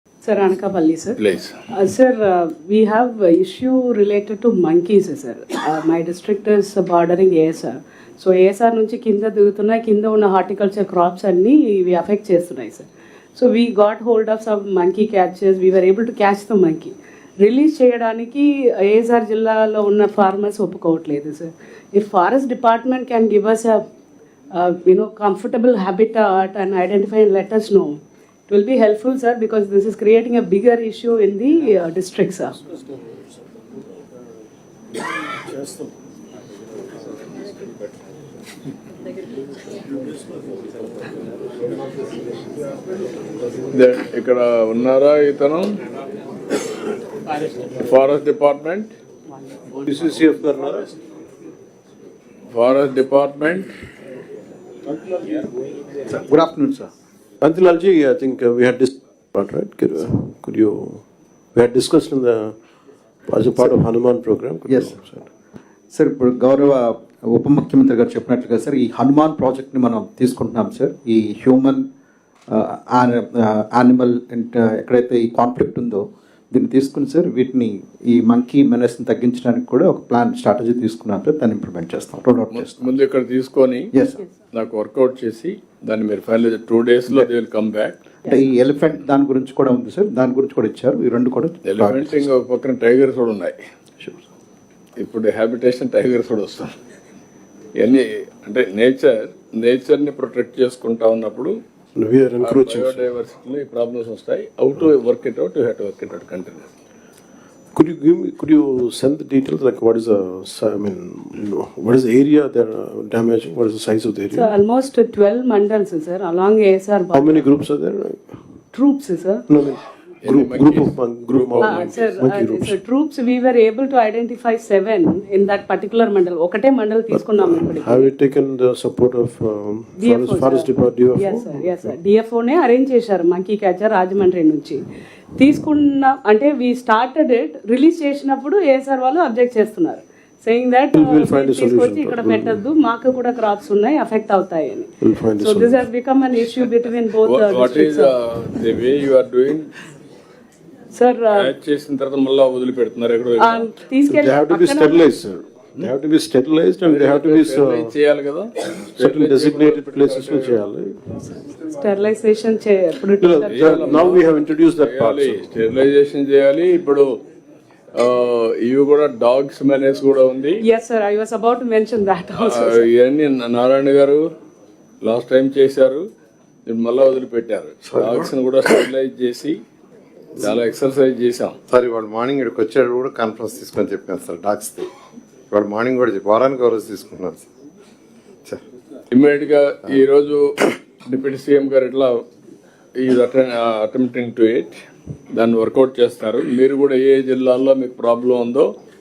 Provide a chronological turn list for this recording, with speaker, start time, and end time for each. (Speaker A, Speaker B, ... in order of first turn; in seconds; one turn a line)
Speaker A: 0.2-1.2
Speaker B: 1.2-1.5
Speaker A: 1.7-23.8
Speaker A: 24.5-28.0
Speaker A: 28.5-32.5
Speaker C: 32.7-33.0
Speaker B: 43.7-45.8
Speaker B: 47.8-48.9
Speaker C: 49.7-50.9
Speaker B: 52.5-53.7
Speaker D: 56.1-56.9
Speaker C: 57.4-61.0
Speaker C: 61.5-62.5
Speaker C: 63.3-65.3
Speaker D: 64.7-65.0
Speaker D: 65.9-71.9
Speaker D: 72.5-82.9
Speaker B: 82.5-83.9
Speaker D: 83.9-84.2
Speaker B: 84.5-88.0
Speaker D: 88.2-92.3
Speaker B: 91.6-93.6
Speaker B: 95.0-96.7
Speaker B: 97.8-101.5
Speaker C: 102.0-103.0
Speaker B: 102.4-106.7
Speaker C: 107.7-114.5
Speaker A: 114.3-117.5
Speaker C: 117.1-118.4
Speaker A: 118.7-119.4
Speaker C: 119.5-122.8
Speaker B: 120.2-122.1
Speaker A: 121.6-128.1
Speaker C: 127.1-131.9
Speaker A: 130.0-134.8
Speaker A: 135.3-148.1
Speaker C: 140.9-142.7
Speaker C: 145.0-145.8
Speaker B: 147.2-149.7
Speaker A: 150.9-151.5
Speaker B: 151.3-153.6
Speaker A: 153.4-155.1
Speaker C: 154.1-157.9
Speaker B: 156.8-160.6
Speaker C: 158.9-161.0
Speaker A: 161.5-164.1
Speaker C: 163.2-165.5
Speaker B: 163.5-167.1
Speaker B: 167.9-170.6
Speaker A: 170.6-172.9
Speaker B: 172.4-174.2
Speaker B: 175.0-176.1
Speaker B: 176.7-179.6
Speaker B: 180.4-181.6
Speaker E: 181.7-184.9
Speaker E: 185.5-187.4
Speaker B: 189.1-192.2
Speaker B: 193.0-194.8
Speaker B: 195.3-198.7